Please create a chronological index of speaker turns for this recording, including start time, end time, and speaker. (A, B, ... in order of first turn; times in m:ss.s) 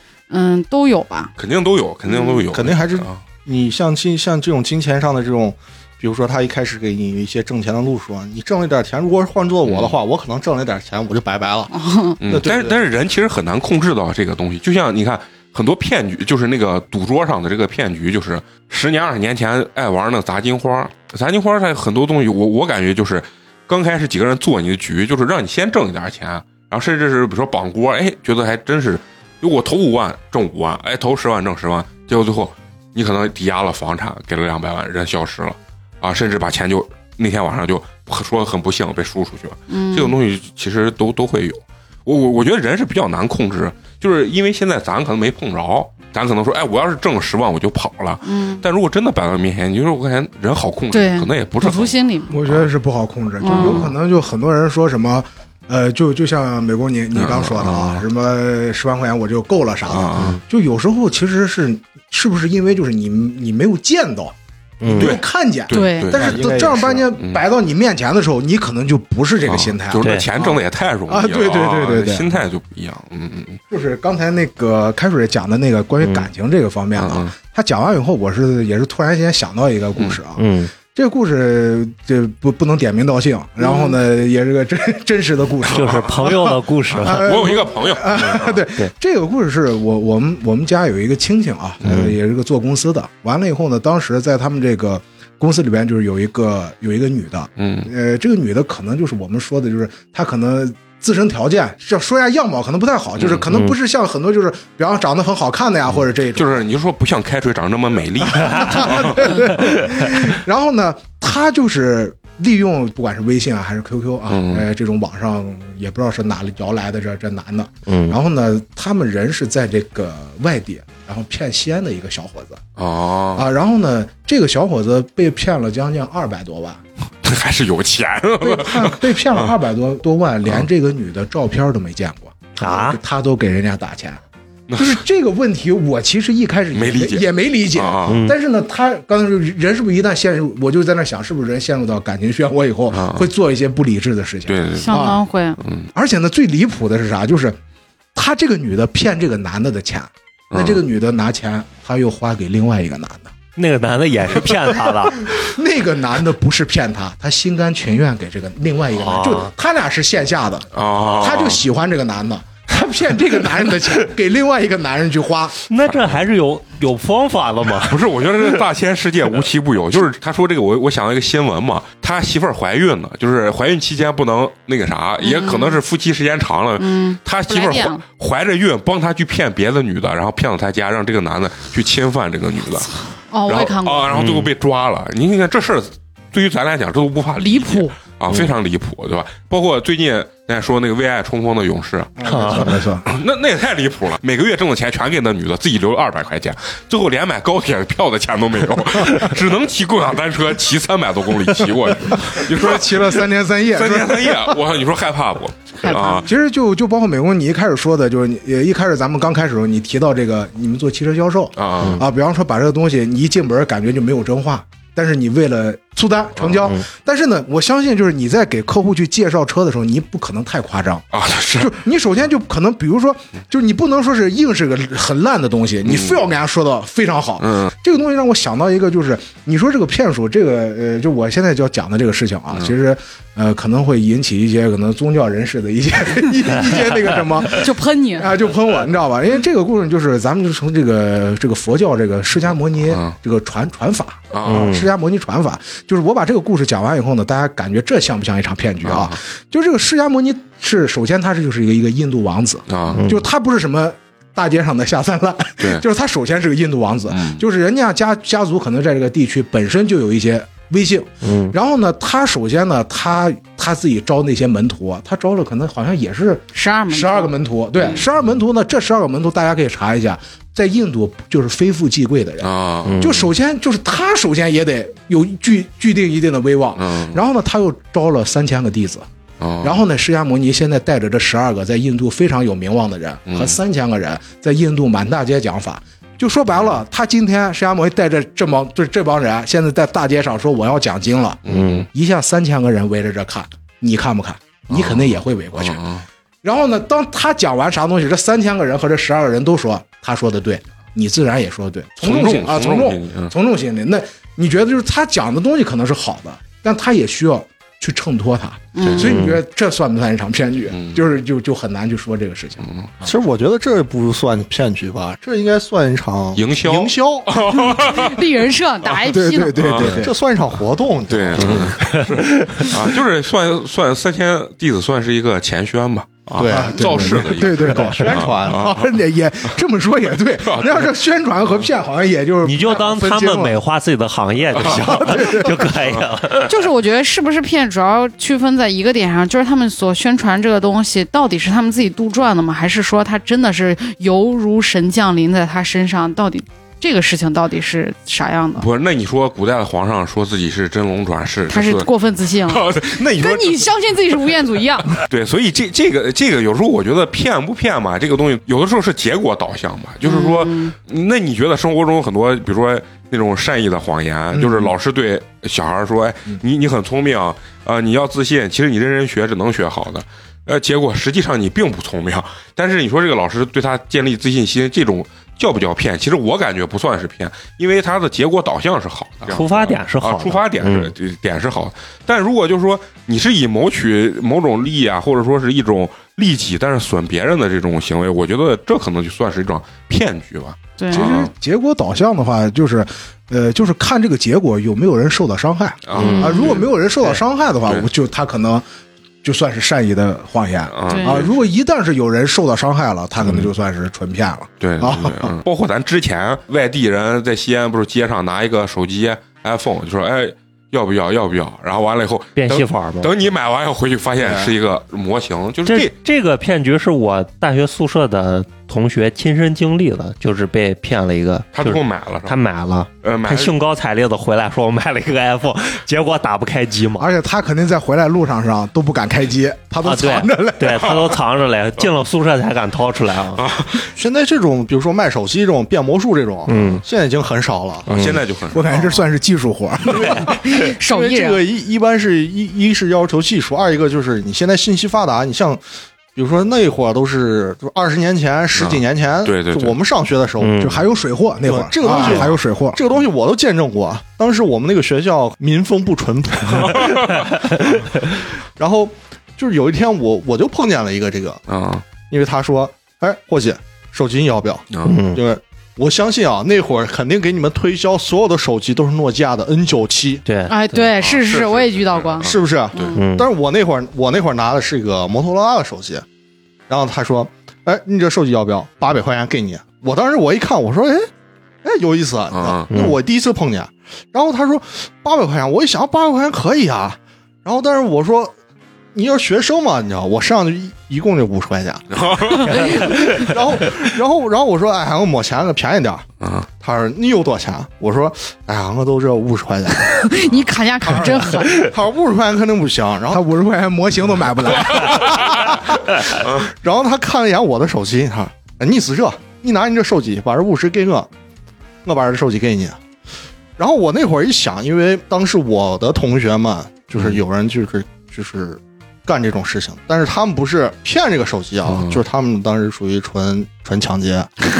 0:00.3-0:01.3 A
0:01.4-0:03.2 B
0:02.0-0:02.4 A
0:02.5-0:11.7 C
0:09.6-0:10.0 B
0:11.7-0:12.2 A
0:12.2-0:52.7 B
0:12.2-0:12.8 C
0:39.7-0:40.1 A
0:48.2-0:48.6 A
0:50.9-0:52.4 A
0:52.3-1:04.3 D
0:53.4-0:53.9 A
0:53.5-0:53.9 B
0:57.1-0:58.0 B
0:59.9-1:00.4 B
1:04.8-1:05.1 E
1:04.8-1:12.4 D
1:04.9-1:06.5 B
1:05.7-1:06.1 A
1:06.1-1:07.1 C
1:09.4-1:13.6 B
1:10.0-1:10.3 E
1:13.7-1:46.6 D
1:17.0-1:17.3 B
1:20.4-1:20.7 E
1:23.6-1:24.0 A
1:25.7-1:27.5 E
1:25.8-1:26.1 B
1:26.9-1:28.6 B
1:31.8-1:32.1 E
1:37.6-1:37.9 B
1:43.2-1:43.5 B
1:46.0-1:49.5 B
1:48.3-2:02.6 D
1:54.3-1:54.7 B
1:57.9-1:58.1 E
2:02.8-2:03.5 B
2:03.3-2:06.8 D
2:07.2-2:09.5 B
2:08.4-2:14.2 D
2:12.6-2:13.0 E
2:14.7-2:15.0 B
2:14.8-2:25.2 D
2:16.7-2:18.2 B
2:18.1-2:18.4 E
2:22.9-2:23.3 B
2:24.5-2:25.9 B
2:24.8-2:25.6 A
2:25.9-2:27.6 D
2:28.1-2:33.3 D
2:30.5-2:30.8 B
2:33.6-2:35.2 E
2:34.6-2:45.6 D
2:39.0-2:39.5 E
2:40.7-2:41.6 B
2:45.7-2:48.4 E
2:45.9-2:46.1 B
2:47.8-3:02.9 B
2:55.2-2:55.8 A
2:56.8-2:58.0 A
3:03.3-3:04.0 A
3:03.4-3:12.2 B
3:04.1-3:04.5 E
3:07.4-3:07.9 A
3:12.2-3:13.1 D
3:12.2-3:12.8 E
3:13.0-3:26.3 B
3:22.1-3:24.6 D
3:25.8-3:26.2 A
3:26.1-3:41.0 D
3:31.6-3:32.0 B
3:41.1-3:41.7 B
3:41.6-4:39.1 D
3:45.8-3:46.2 B
3:47.4-3:47.7 B
3:57.5-3:58.3 A
4:02.9-4:03.2 B
4:04.3-4:04.7 B
4:04.4-4:04.9 E
4:08.8-4:09.2 B
4:12.7-4:13.0 B
4:12.9-4:13.2 E
4:17.1-4:17.4 B
4:21.2-4:21.5 E
4:26.5-4:27.3 A
4:32.4-4:33.0 B
4:32.8-4:33.3 E
4:36.8-4:37.2 B
4:39.4-4:39.8 B
4:39.6-4:55.8 D
4:43.3-4:43.6 B
4:51.4-4:51.9 B
4:51.5-4:51.9 E
4:54.7-4:56.0 B
4:56.4-5:13.0 D
5:02.0-5:03.3 B
5:08.7-5:09.1 A
5:08.8-5:09.2 B
5:09.1-5:09.4 E
5:10.7-5:11.0 B
5:12.6-5:12.9 B
5:13.0-5:17.5 C
5:16.3-5:18.2 B
5:17.7-5:19.6 A
5:19.0-5:20.1 D
5:19.6-5:20.0 B
5:19.8-5:21.8 C
5:21.1-5:28.9 B
5:21.4-5:22.7 E
5:26.3-5:28.8 C
5:26.4-5:33.6 D
5:30.4-5:30.9 B
5:32.4-5:36.6 E
5:34.6-5:35.8 D
5:34.6-5:35.0 B
5:35.8-5:36.1 B
5:36.4-5:48.7 A
5:48.6-5:54.3 B
5:51.5-5:55.0 A
5:54.9-6:31.3 B
6:00.0-6:00.7 A
6:04.3-6:04.7 D
6:19.3-6:20.9 E
6:30.8-6:31.0 A
6:30.9-6:38.6 D
6:35.9-6:36.7 B
6:36.0-6:36.4 E
6:36.2-6:36.5 A
6:39.2-6:45.4 D
6:40.7-6:41.4 B
6:40.9-6:41.2 A
6:44.6-6:55.9 B
6:52.4-6:53.1 E
6:54.2-6:54.5 C
6:55.6-7:07.1 E
7:01.5-7:02.4 B
7:03.0-7:03.5 B
7:07.0-7:11.1 D
7:09.8-7:13.5 E
7:13.4-7:13.9 B
7:13.9-7:17.9 C
7:16.5-7:16.8 E
7:17.9-7:18.7 B
7:17.9-7:18.2 E
7:18.5-7:20.4 D
7:18.7-7:19.0 C
7:19.9-7:25.6 C
7:20.5-7:21.4 A
7:26.1-7:30.7 C
7:28.5-7:29.8 B
7:30.4-7:30.8 E
7:30.6-7:32.8 D
7:31.4-7:41.4 C
7:36.5-7:37.2 B
7:41.5-7:41.8 B
7:42.0-7:50.2 C
7:44.8-7:45.2 E
7:50.2-7:50.9 E
7:50.5-7:53.0 A
7:51.0-7:52.9 B
7:52.2-7:56.0 C
7:52.9-7:53.3 E
7:56.7-8:01.1 C
8:01.6-8:08.3 C
8:02.3-8:02.7 B
8:02.7-8:03.0 E
8:08.9-8:16.1 C
8:11.9-8:13.0 B
8:12.4-8:13.0 A
8:12.6-8:13.3 E
8:16.2-8:16.5 B
8:16.6-8:20.3 C
8:19.8-8:21.7 A
8:20.8-8:23.2 C
8:23.1-8:25.5 D
8:24.6-8:25.6 B
8:25.0-8:31.1 C
8:26.2-8:26.4 B
8:31.8-8:32.8 C
8:33.6-8:44.3 C
8:41.7-8:42.0 B